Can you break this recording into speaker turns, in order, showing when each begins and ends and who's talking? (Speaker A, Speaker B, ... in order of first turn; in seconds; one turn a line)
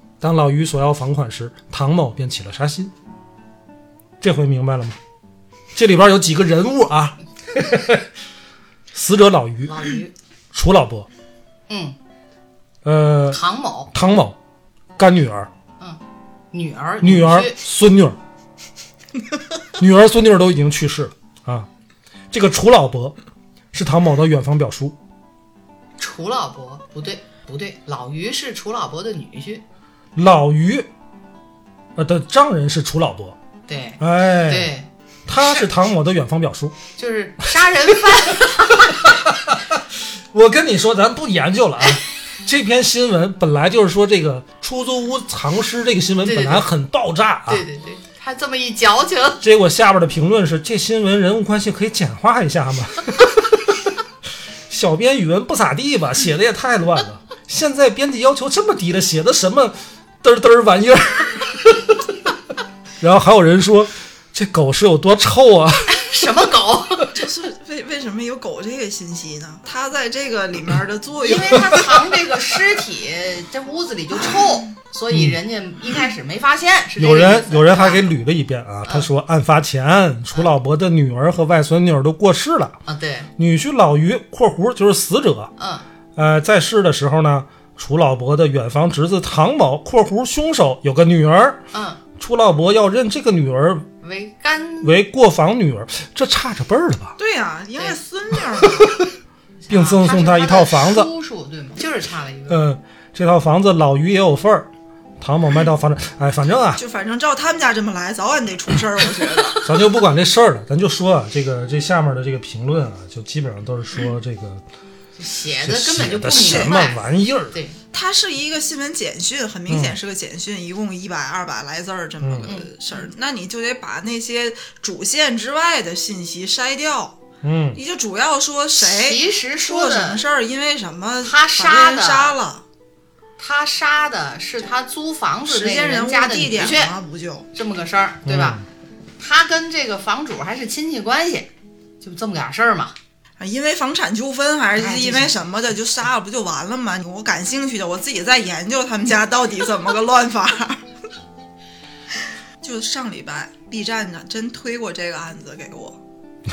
Speaker A: 0.2-2.9
Speaker A: 4.2-5.0
Speaker A: 5.7-8.1
Speaker A: 8.9-9.8
Speaker B: 9.7-10.1
Speaker A: 10.5-11.1
Speaker B: 11.7-12.0
Speaker A: 12.8-13.4
Speaker B: 13.3-13.9
Speaker A: 13.9-14.4
Speaker A: 15.0-15.5
Speaker B: 16.5-17.6
Speaker A: 17.0-18.2
Speaker A: 19.7-21.7
Speaker A: 22.3-23.1
Speaker A: 23.7-25.0
Speaker B: 26.0-29.6
Speaker A: 30.1-30.9
Speaker A: 31.9-33.4
Speaker B: 33.7-34.9
Speaker A: 34.0-34.7
Speaker A: 35.2-36.8
Speaker B: 37.0-39.2
Speaker A: 38.0-47.6
Speaker B: 46.2-46.7
Speaker B: 47.5-49.4
Speaker A: 49.4-54.0
Speaker A: 54.7-62.1
Speaker A: 63.0-66.2
Speaker B: 65.9-67.2
Speaker C: 67.1-72.2
Speaker B: 71.2-78.0
Speaker A: 75.1-75.4
Speaker A: 77.0-82.8
Speaker B: 82.8-83.3
Speaker A: 83.3-85.5
Speaker B: 85.6-85.8
Speaker A: 86.2-91.6
Speaker B: 91.7-92.0
Speaker A: 92.2-93.8
Speaker B: 94.0-94.9
Speaker A: 94.8-97.2
Speaker C: 97.2-99.0
Speaker A: 98.8-99.0
Speaker B: 99.6-102.6
Speaker A: 99.7-101.1
Speaker A: 102.5-106.8
Speaker C: 106.8-109.7
Speaker A: 109.6-114.6
Speaker B: 115.2-117.8
Speaker A: 115.6-117.6
Speaker C: 116.2-116.8
Speaker C: 117.9-127.2
Speaker A: 119.7-120.0
Speaker A: 122.2-122.6
Speaker B: 122.4-123.1
Speaker A: 127.4-127.8
Speaker C: 127.7-132.6
Speaker B: 128.8-130.2
Speaker B: 131.2-132.4
Speaker B: 133.4-136.9
Speaker C: 135.4-137.4
Speaker B: 137.5-138.6
Speaker A: 138.2-138.6
Speaker B: 139.2-142.9
Speaker C: 143.4-150.8
Speaker B: 144.7-145.4
Speaker C: 152.6-156.0